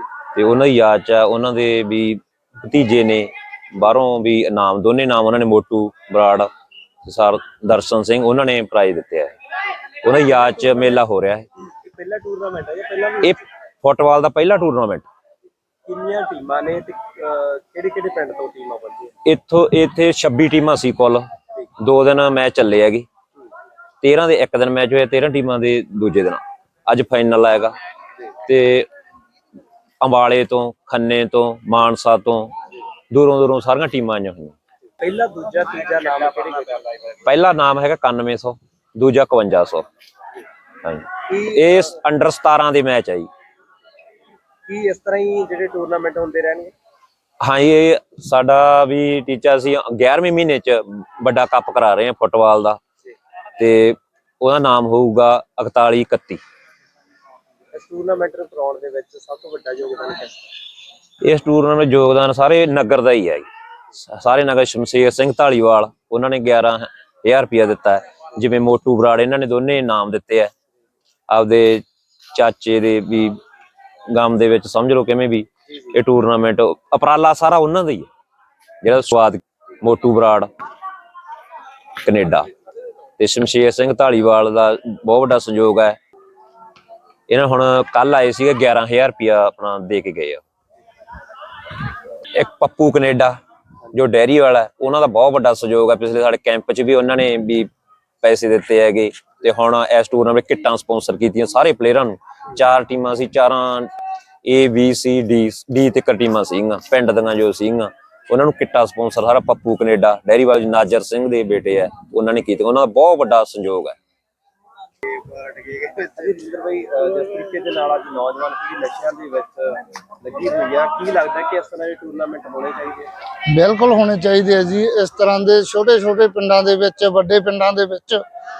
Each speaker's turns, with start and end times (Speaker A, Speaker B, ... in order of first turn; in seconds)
Speaker A: 0.3-6.5, 7.0-9.3, 10.0-11.4, 13.2-15.0, 19.2-21.3, 21.8-23.1, 24.0-27.8, 28.5-28.9, 30.0-32.5, 33.1-34.5, 37.2-39.9, 40.8-43.3, 47.4-52.8, 53.6-56.4, 61.2-63.5, 64.0-70.5, 71.3-71.8, 72.3-73.4, 74.1-78.1, 78.8-80.5, 82.0-82.5, 83.2-86.0, 87.3-90.4, 92.3-93.4, 93.9-97.7, 98.2-103.9, 104.4-113.9
Speaker B: 10.2-10.8, 11.8-13.4, 15.8-19.1, 35.0-37.1, 41.3-41.9, 44.7-46.7, 57.7-60.5, 115.6-123.1
Speaker C: 123.5-128.2